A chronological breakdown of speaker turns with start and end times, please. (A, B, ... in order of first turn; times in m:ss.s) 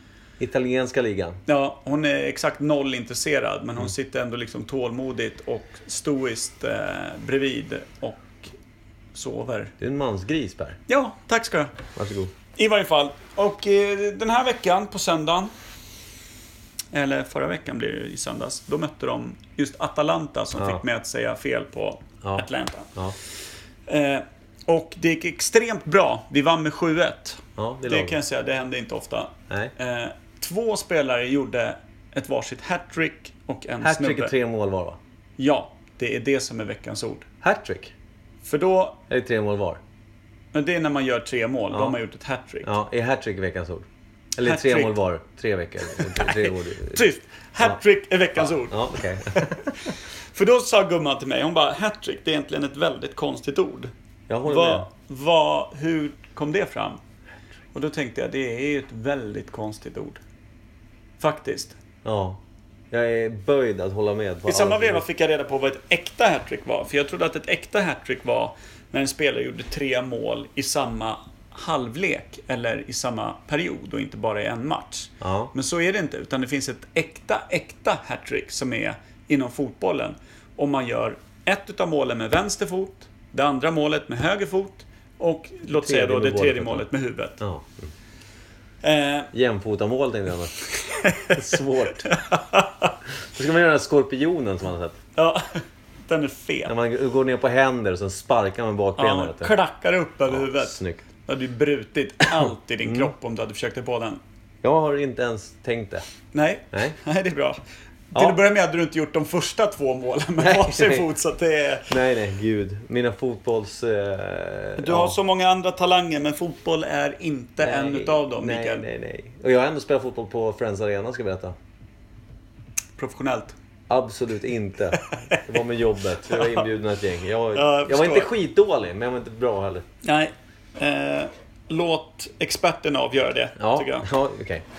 0:00.4-0:01.4 A
0:01.5-0:08.5 B
0:09.1-0:09.7 B
0:09.8-0:10.8 A
0:10.9-0:11.7 B
0:12.0-0:12.3 A
0:12.6-0:15.5 B
0:16.9-0:22.9 B
0:20.6-0:20.8 A
0:22.2-0:23.2 A
0:23.9-0:34.3 B
0:27.6-0:28.2 A
0:33.8-0:35.0 A
0:35.4-0:37.2 B
0:37.4-0:37.9 A
0:38.4-0:39.0 B
0:39.1-0:39.8 A
0:40.5-0:42.7 B
0:42.6-0:47.0 A
0:44.4-0:45.0 B
0:45.9-0:49.7 B
0:48.4-0:49.8 A
0:50.3-0:53.9 B
0:54.3-0:54.9 A
0:54.5-0:57.0 B
0:57.7-1:00.2 B
1:01.2-1:01.8 B
1:02.0-1:02.4 A
1:02.9-1:05.0 A
1:04.5-1:27.4 B
1:15.2-1:15.5 A
1:25.7-1:26.9 A
1:27.4-1:27.9 A
1:28.8-1:29.3 B
1:29.3-1:30.6 A
1:30.7-1:32.9 B
1:31.2-1:32.1 A
1:33.3-1:35.0 A
1:35.2-1:36.7 B
1:36.7-1:39.5 A
1:39.0-1:44.2 B
1:40.3-1:41.1 A
1:42.8-1:43.1 A
1:44.6-1:46.0 A
1:46.3-1:47.6 B
1:48.1-1:52.0 B
1:48.1-1:48.4 A
1:50.4-1:51.1 A
1:51.9-1:55.2 A
1:54.8-1:58.8 B
1:57.6-2:01.6 A
2:03.0-2:03.6 B
2:03.9-2:09.8 A
2:05.0-2:05.6 B
2:06.2-2:06.7 B
2:07.5-2:08.3 B
2:10.0-2:14.1 B
2:13.6-2:14.6 A